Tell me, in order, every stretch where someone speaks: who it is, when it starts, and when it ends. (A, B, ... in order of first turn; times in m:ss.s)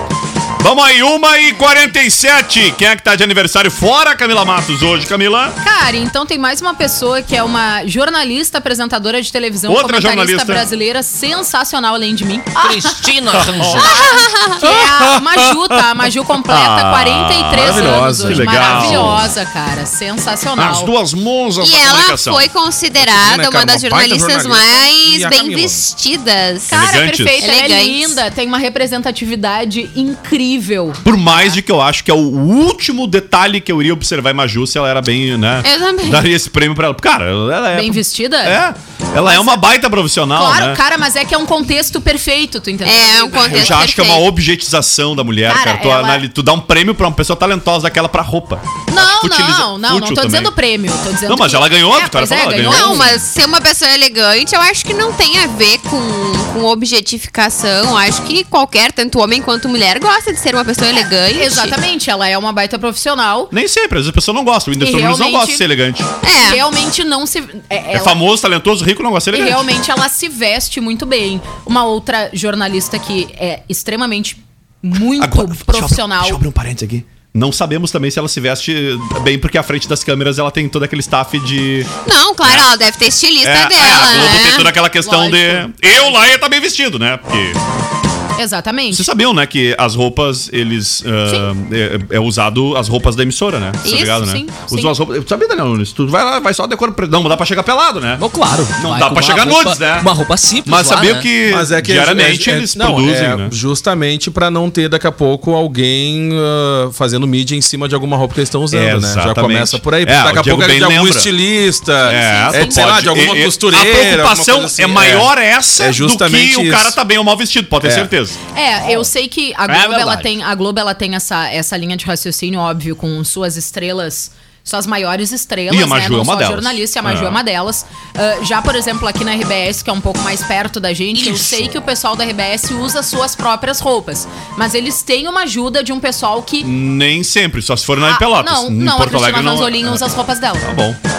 0:00.6-0:05.6 A
0:05.6-0:12.9 B
0:09.7-0:10.6 A
0:12.5-0:13.9 C
0:13.3-0:14.0 A
0:13.8-0:14.6 D
0:13.8-0:20.9 B
0:14.6-0:19.3 A
0:17.5-0:19.2 E
0:20.6-0:22.5 A
0:21.6-0:26.7 D
0:23.0-0:25.8 E
0:26.7-0:31.0 B
0:26.7-0:27.4 A
0:27.4-0:28.2 D
0:31.0-0:40.8 A
0:35.6-0:36.3 D
0:37.7-0:38.6 B
0:39.2-0:39.6 B
0:40.4-0:43.9 B
0:42.8-0:44.2 D
0:43.5-0:50.5 A
0:45.5-0:46.2 B
0:48.9-0:53.2 B
0:51.2-0:53.2 A
0:52.6-1:01.8 D
1:00.9-1:03.5 B
1:03.5-1:06.1 A
1:04.8-1:05.6 B
1:06.2-1:06.6 D
1:06.4-1:08.2 B
1:07.9-1:09.7 A
1:09.3-1:16.4 B
1:15.1-1:21.9 A
1:22.0-1:24.7 D
1:22.4-1:22.7 A
1:23.4-1:27.6 A
1:25.0-1:26.2 B
1:28.4-1:29.1 B
1:28.9-1:38.2 A
1:33.8-1:34.9 B
1:38.2-1:41.3 C
1:38.7-1:40.1 A
1:40.6-1:43.6 A
1:41.4-1:57.0 E
1:48.7-1:51.3 A
1:52.0-1:58.4 A
1:52.0-1:52.8 B
1:57.8-1:58.1 E
1:58.5-2:16.7 B
1:59.7-2:00.3 C
2:05.7-2:07.4 A
2:11.1-2:11.7 C
2:16.6-2:20.0 A
2:18.0-2:20.6 B
2:20.6-2:21.0 A